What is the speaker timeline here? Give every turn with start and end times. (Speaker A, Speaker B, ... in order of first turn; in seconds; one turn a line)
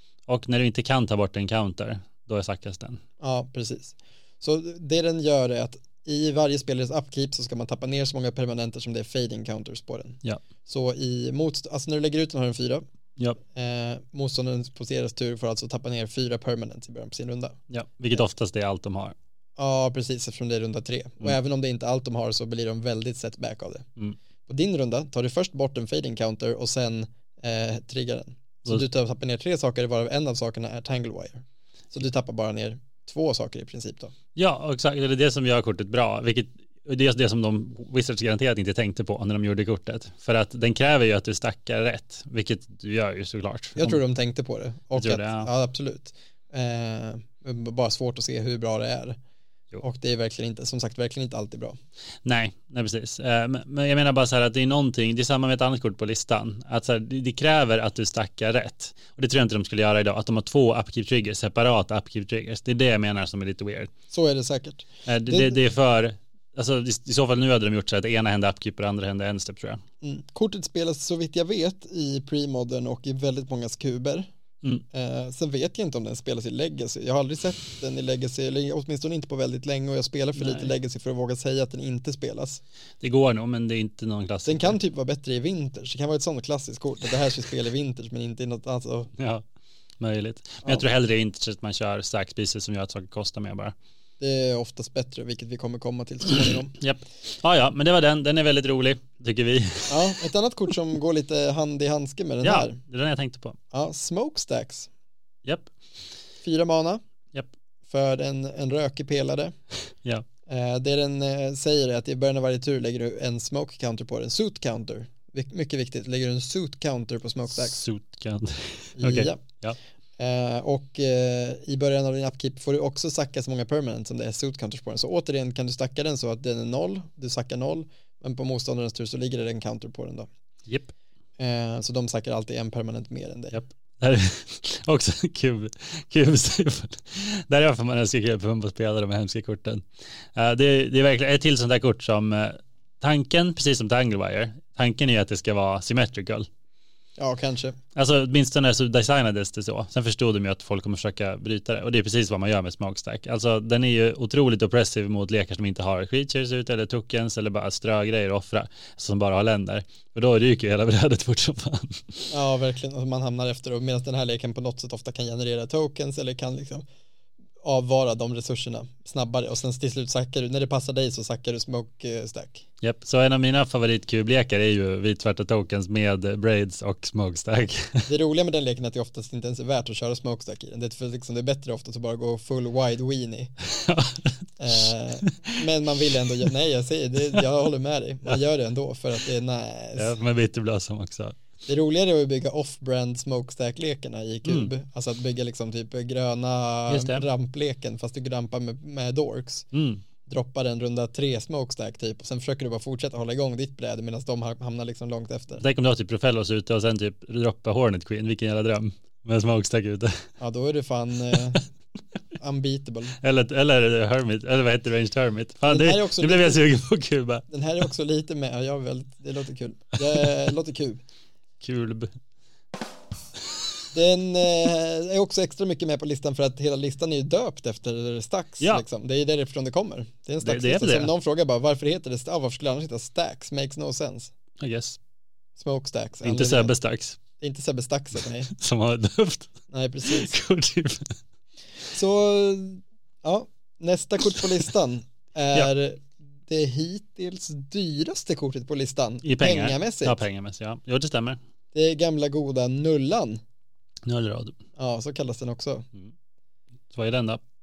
Speaker A: 0.3-3.0
Speaker B: 3.2-12.8
Speaker B: 13.4-17.6
Speaker A: 17.7-19.1
Speaker B: 19.6-23.9
Speaker B: 24.5-34.1
Speaker A: 34.3-44.0
Speaker B: 43.8-49.2
Speaker A: 44.9-45.5
Speaker B: 49.8-51.8
Speaker A: 52.2-63.9
Speaker B: 64.1-65.6
Speaker A: 65.0-69.8
Speaker B: 70.0-74.3
Speaker B: 74.9-82.6
Speaker A: 80.4-80.7
Speaker A: 83.0-84.8
Speaker B: 84.5-89.1
Speaker A: 89.2-89.4
Speaker A: 90.0-93.7
Speaker B: 94.2-96.7
Speaker A: 96.8-100.2
Speaker B: 99.9-102.8
Speaker A: 102.4-103.6
Speaker B: 103.7-104.9
Speaker A: 105.4-105.7
Speaker B: 106.4-107.0
Speaker B: 107.9-109.5
Speaker B: 110.5-117.8
Speaker A: 117.5-119.8
Speaker B: 119.0-119.4
Speaker B: 120.2-130.3
Speaker A: 130.7-130.9
Speaker B: 131.4-133.6
Speaker A: 133.5-139.8
Speaker A: 140.3-146.5
Speaker B: 147.2-147.8
Speaker A: 147.9-162.2
Speaker B: 162.3-166.8
Speaker B: 167.6-172.6
Speaker A: 172.8-178.1
Speaker B: 178.1-183.5
Speaker A: 183.7-184.3
Speaker B: 184.6-190.2
Speaker A: 185.2-185.5
Speaker A: 190.0-191.4
Speaker B: 191.7-199.7
Speaker A: 194.4-194.7
Speaker A: 196.9-197.2
Speaker A: 199.7-200.0
Speaker B: 200.2-205.6
Speaker A: 205.6-210.2
Speaker B: 210.4-211.6
Speaker B: 212.4-213.2
Speaker A: 213.2-217.4
Speaker B: 215.7-216.6
Speaker B: 217.5-221.0
Speaker A: 221.6-222.1
Speaker B: 223.9-234.3
Speaker A: 230.4-231.1
Speaker A: 234.6-235.0
Speaker B: 235.6-236.7
Speaker A: 236.2-237.2
Speaker B: 237.4-238.5
Speaker A: 238.5-239.5
Speaker B: 239.7-240.3
Speaker A: 240.1-241.2
Speaker B: 241.9-250.2
Speaker A: 249.2-251.4
Speaker B: 251.7-253.4
Speaker A: 254.1-254.6
Speaker B: 254.8-255.9
Speaker A: 256.9-257.4